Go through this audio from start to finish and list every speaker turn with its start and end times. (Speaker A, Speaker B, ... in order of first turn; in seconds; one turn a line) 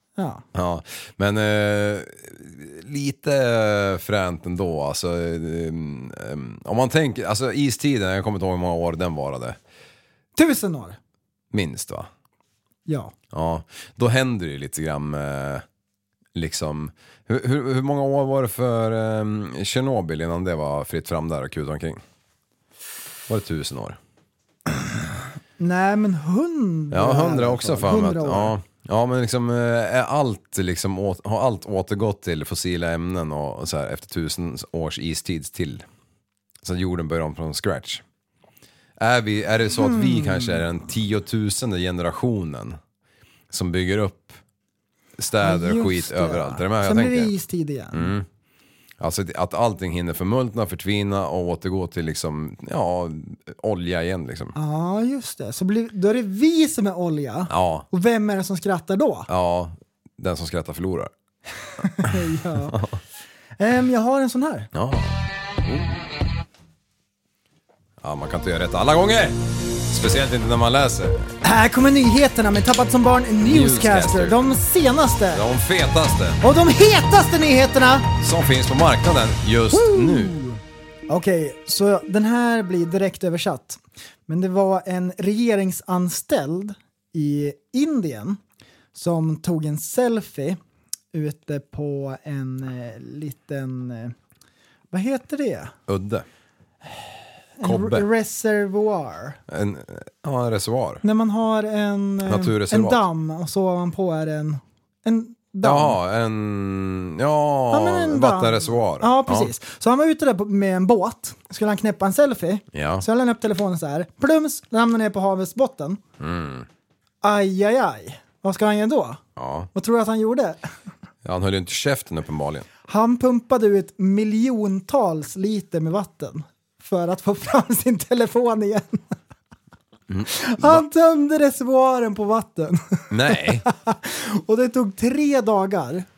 Speaker A: 0.2-0.4
Speaker B: 0.5-9.6
Speaker A: 10.4-11.0
Speaker B: 11.5-12.1
Speaker A: 12.9-13.1
Speaker B: 13.3-15.6
Speaker B: 16.4-22.0
Speaker B: 23.3-24.0
Speaker A: 25.6-28.5
Speaker B: 26.9-35.9
Speaker B: 36.6-38.0
Speaker B: 39.0-42.8
Speaker A: 39.8-40.7
Speaker B: 43.5-44.4
Speaker B: 45.2-47.3
Speaker A: 45.4-48.1
Speaker B: 47.9-48.3
Speaker B: 49.0-54.6
Speaker A: 54.6-59.3
Speaker B: 57.5-57.9
Speaker B: 59.3-61.1
Speaker A: 61.8-62.8
Speaker B: 62.0-63.0
Speaker A: 63.6-64.7
Speaker B: 64.7-66.0
Speaker B: 68.0-71.3
Speaker A: 71.4-75.5
Speaker B: 73.4-74.5
Speaker B: 75.3-76.4
Speaker A: 76.4-78.1
Speaker B: 78.2-80.4
Speaker A: 79.7-88.4
Speaker A: 89.0-90.6
Speaker A: 91.1-94.2
Speaker A: 94.9-95.7
Speaker B: 95.9-96.2
Speaker A: 97.6-99.4
Speaker B: 97.6-98.1
Speaker B: 99.5-101.0
Speaker A: 101.0-106.0
Speaker B: 102.3-103.0
Speaker B: 105.6-109.5
Speaker A: 107.7-116.0
Speaker B: 112.7-113.0
Speaker B: 116.2-116.7
Speaker A: 117.2-119.2
Speaker B: 119.4-119.7
Speaker A: 119.8-120.6
Speaker B: 121.2-122.7
Speaker A: 122.9-129.2
Speaker B: 130.1-130.8
Speaker A: 130.3-136.1
Speaker B: 133.1-133.7